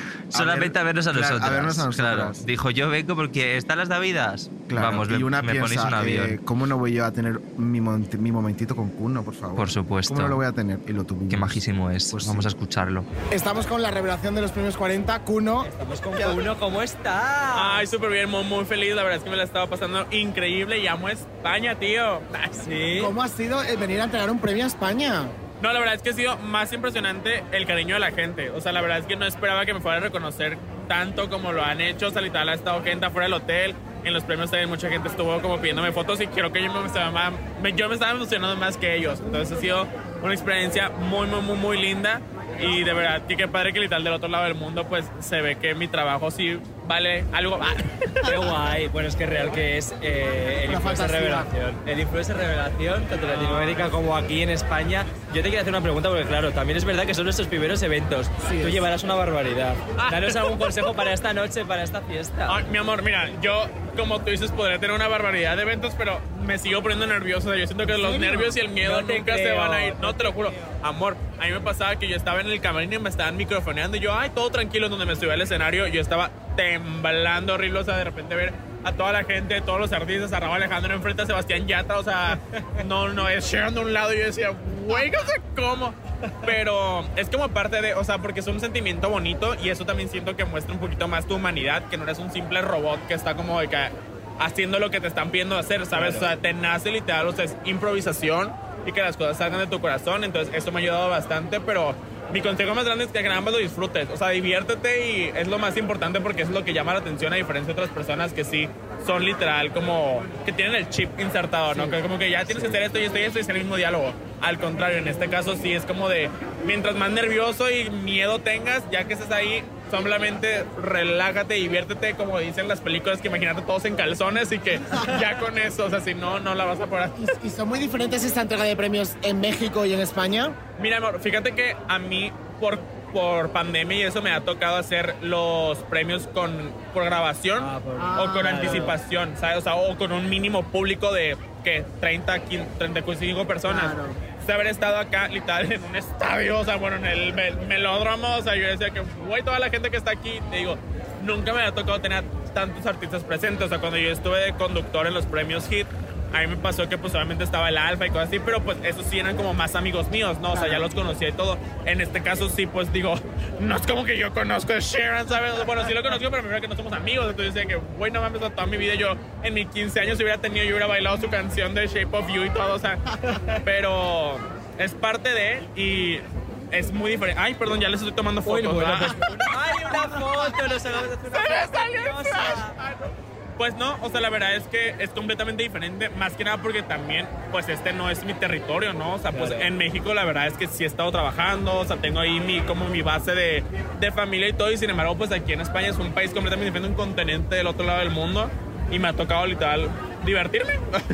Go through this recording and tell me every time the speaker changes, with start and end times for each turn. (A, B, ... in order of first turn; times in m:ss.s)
0:00.3-0:02.4 A
0:00.3-0:06.4 B
0:04.7-0:12.5 A
0:09.6-0:10.4 B
0:11.3-0:13.1 B
0:13.3-0:16.4 C
0:15.6-0:17.9 D
0:17.5-0:22.6 E
0:22.6-0:23.1 D
0:23.0-0:25.3 C
0:25.6-0:48.3 E
0:48.2-1:02.6 D
0:50.7-0:51.5 C
0:53.3-0:53.7 E
1:00.0-1:00.7 E
1:02.5-2:07.3 E
1:07.9-1:10.8 D
1:35.9-1:36.3 D
1:52.5-1:52.8 D
2:07.2-2:10.6 C
2:10.8-2:53.0 E
2:17.6-2:19.0 D
2:23.7-2:24.1 C
2:53.6-2:59.2 E
2:58.4-3:02.8 D
3:01.3-3:20.8 E
3:09.3-3:09.7 D